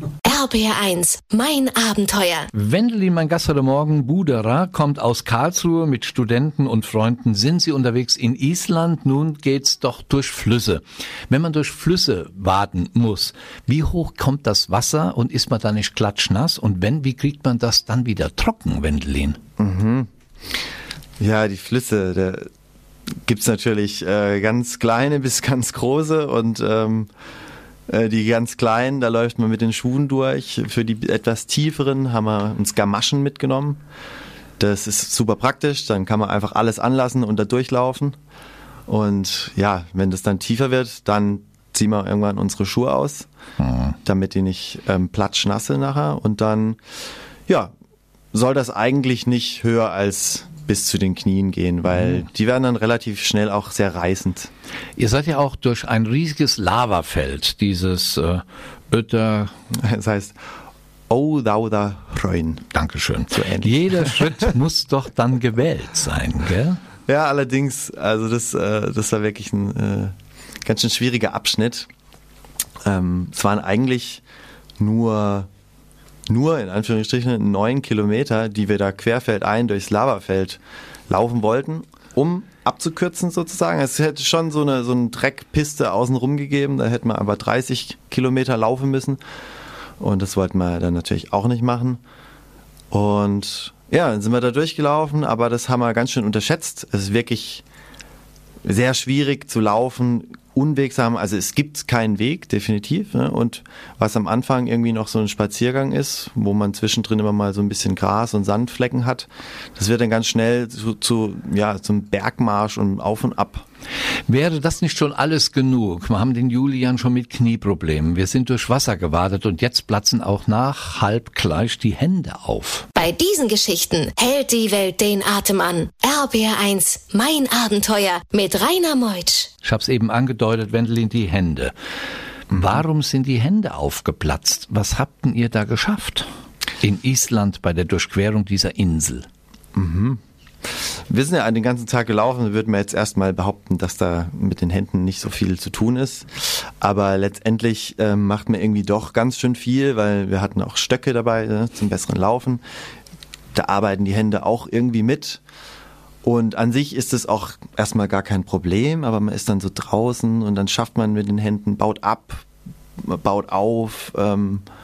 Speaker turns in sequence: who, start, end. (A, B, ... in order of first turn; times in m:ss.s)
0:00.2-0:02.5 A
0:02.5-0:19.4 B
0:19.6-0:20.1 C
0:21.2-0:22.5 C
0:23.2-0:27.1 C
0:27.9-0:33.8 C
0:34.6-0:38.2 C
0:38.9-0:43.3 C
0:43.6-0:43.9 B
0:44.0-0:46.8 C
0:48.3-0:54.5 C
0:55.0-0:59.5 B
0:59.7-1:00.4 C
1:01.1-1:02.6 C
1:02.7-1:06.8 B
1:03.3-1:04.5 C
1:07.1-1:10.1 C
1:10.6-1:11.9 C
1:12.8-1:14.2 C
1:14.8-1:15.5 C
1:16.3-1:29.2 C
1:30.0-1:32.0 C
1:32.9-1:37.6 C
1:38.6-1:53.6 C
1:54.3-2:02.9 B
2:03.0-2:09.5 A
2:09.6-2:11.7 B
2:12.5-2:16.3 B
2:12.5-2:12.8 C
2:16.8-2:19.3 B
2:19.7-2:20.2 C
2:21.1-2:32.6 C
2:33.5-2:35.4 C
2:36.2-2:42.4 C
2:43.0-2:44.6 C